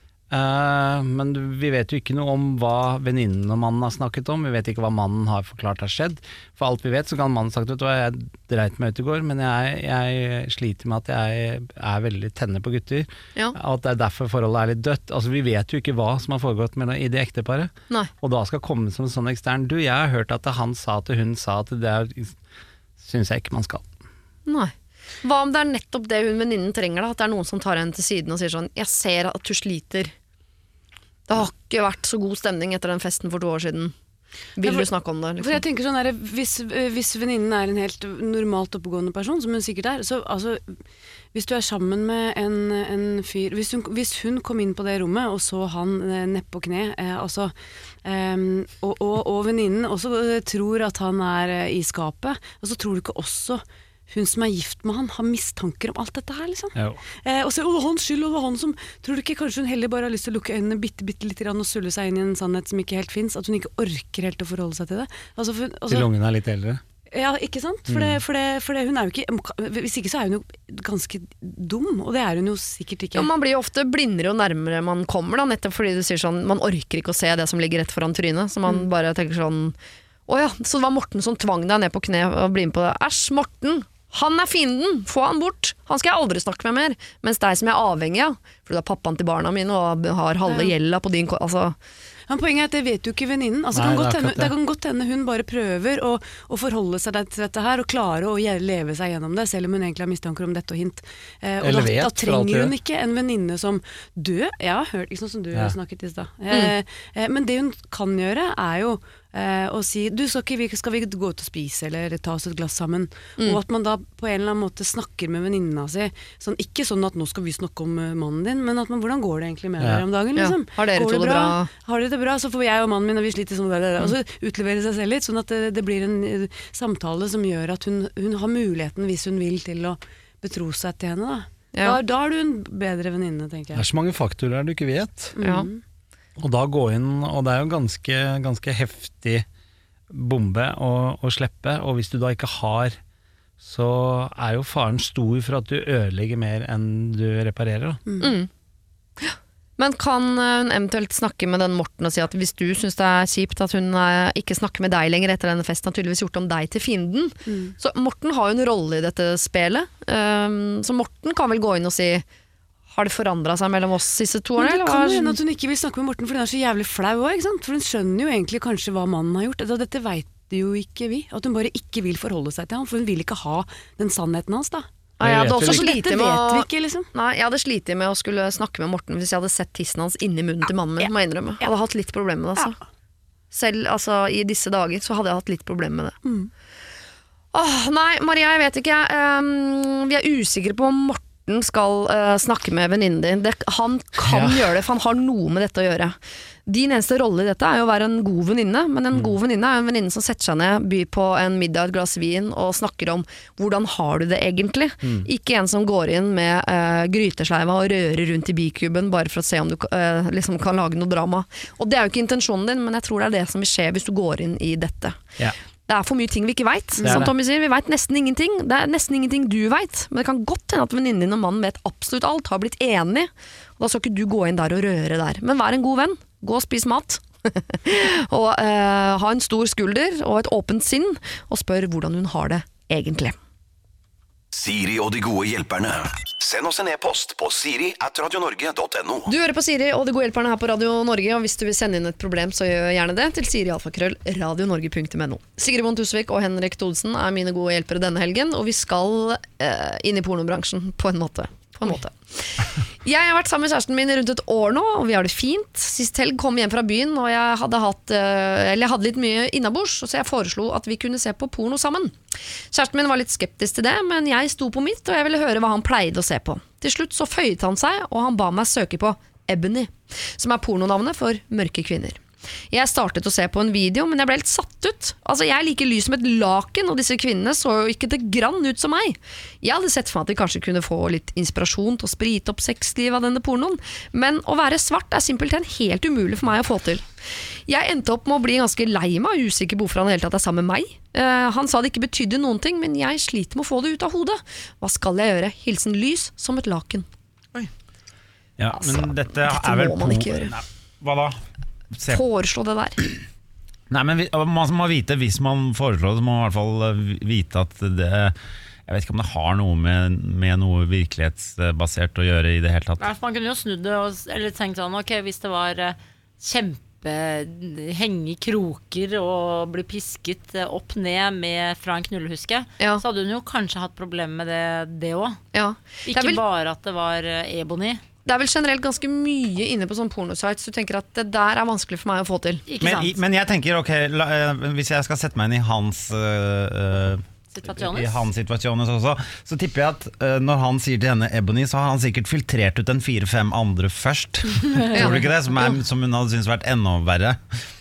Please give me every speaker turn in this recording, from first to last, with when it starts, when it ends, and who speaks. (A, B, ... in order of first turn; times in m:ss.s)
0:00.3-0:22.4 A
0:23.0-0:23.8 A
0:24.4-0:30.1 B
0:31.3-0:33.9 B
0:34.6-0:35.6 B
0:38.7-0:39.5 C
0:43.1-0:43.4 C
0:46.3-0:47.4 C
0:48.8-0:53.5 C
0:54.1-0:56.6 C
0:56.7-0:57.0 A
0:57.4-1:01.0 C
1:01.7-1:05.6 C
1:05.9-1:06.8 A
1:07.2-1:11.2 C
1:07.9-1:08.2 A
1:11.8-1:13.1 C
1:13.1-1:19.8 B
1:20.3-1:31.8 B
1:32.3-1:41.0 C
1:33.7-1:34.6 A
1:41.6-1:42.8 A
1:42.0-2:13.7 C
1:59.8-2:00.1 A
2:00.3-2:01.7 B
2:11.7-2:12.0 B
2:13.7-2:15.4 A
2:15.4-2:15.7 B
2:15.4-2:15.7 C
2:16.4-2:19.4 A
2:20.1-2:23.0 A
2:23.6-2:28.0 A
2:28.2-2:28.5 B
2:29.2-2:42.2 B
2:42.9-2:45.4 B
2:44.6-2:54.8 C
2:55.2-2:55.8 A
2:55.2-3:02.8 B
2:55.7-2:57.0 C
3:03.5-3:06.2 B
3:07.5-3:35.2 B
3:35.9-3:53.4 B
3:37.0-3:37.3 A
3:37.0-3:37.3 C
3:54.5-3:59.3 D
3:59.2-4:22.2 B
4:22.7-4:47.0 B
4:47.6-4:57.1 B
4:58.6-5:01.4 E
4:58.7-5:00.5 B
5:01.9-5:02.2 E
5:02.1-5:03.0 B
5:03.9-5:08.3 E
5:08.8-5:13.0 E
5:13.0-5:25.4 F
5:25.5-5:26.4 B
5:26.0-5:28.0 F
5:28.2-5:32.6 B
5:32.7-5:33.2 F
5:32.8-5:47.6 E
5:37.5-5:38.3 F
5:44.6-5:45.2 F
5:44.9-5:45.8 B